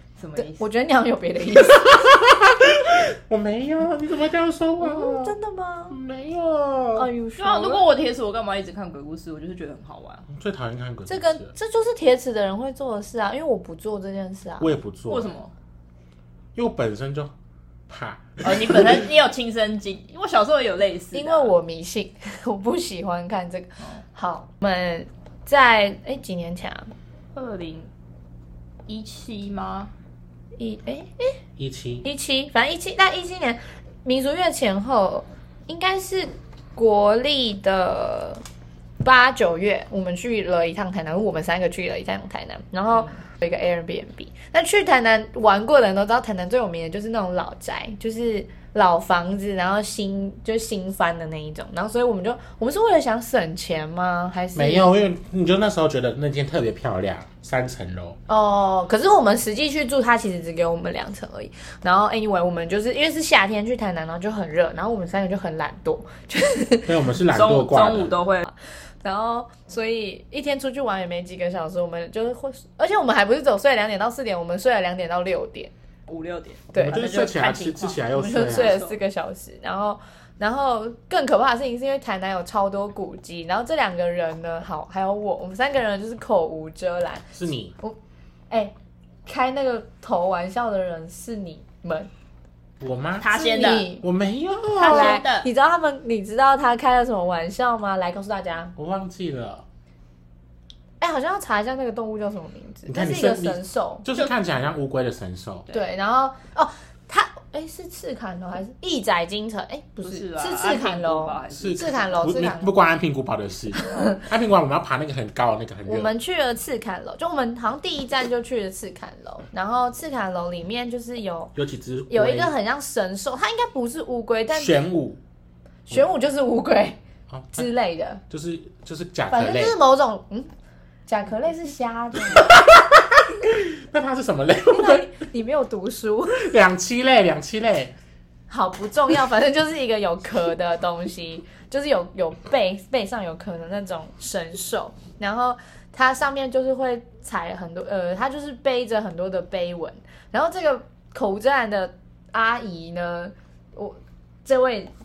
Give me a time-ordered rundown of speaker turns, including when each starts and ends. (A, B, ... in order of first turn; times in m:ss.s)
0:00.2-0:00.7 A
0:00.4-0:02.1 B
0:01.5-0:05.4 C
0:04.8-0:06.0 B
0:05.9-0:07.1 C
0:07.0-0:07.8 B
0:07.4-0:10.3 A
0:10.3-0:11.5 C
0:11.1-0:14.8 B
0:14.6-0:15.4 C
0:15.1-0:15.5 A
0:16.5-0:17.3 C
0:17.9-0:19.1 C
0:18.4-0:21.5 A
0:21.1-0:26.9 B
0:27.3-0:27.9 A
0:28.9-0:29.9 A
0:30.6-0:31.4 B
0:31.6-0:32.0 C
0:32.0-0:38.4 B
0:39.0-0:54.9 B
0:42.9-0:43.2 A
0:54.5-0:58.2 C
0:58.3-1:07.0 B
1:06.8-1:08.1 C
1:07.3-1:08.5 A
1:09.0-1:15.7 B
1:16.1-1:19.0 A
1:16.7-1:17.2 B
1:16.8-1:18.8 C
1:18.0-1:28.0 B
1:27.3-1:27.7 C
1:29.2-1:32.1 B
1:32.8-1:35.2 C
1:33.2-1:33.9 A
1:33.3-1:34.0 B
1:34.8-1:35.5 A
1:34.8-1:38.7 B
1:38.8-1:39.6 C
1:41.0-1:44.0 B
1:42.9-1:45.7 C
1:45.7-1:52.7 B
1:50.0-1:52.3 A
1:51.5-1:56.1 C
1:53.8-1:54.2 B
1:55.8-2:01.5 B
2:01.6-2:02.5 C
2:02.1-2:04.8 B
2:04.5-2:05.2 C
2:05.9-2:07.0 B
2:07.3-2:07.7 C
2:07.5-2:08.2 B
2:08.3-2:09.8 C
2:09.3-2:10.5 B
2:11.1-2:12.6 B
2:12.3-2:15.1 C
2:14.7-2:16.5 B
2:16.3-2:17.9 C
2:18.5-2:34.9 B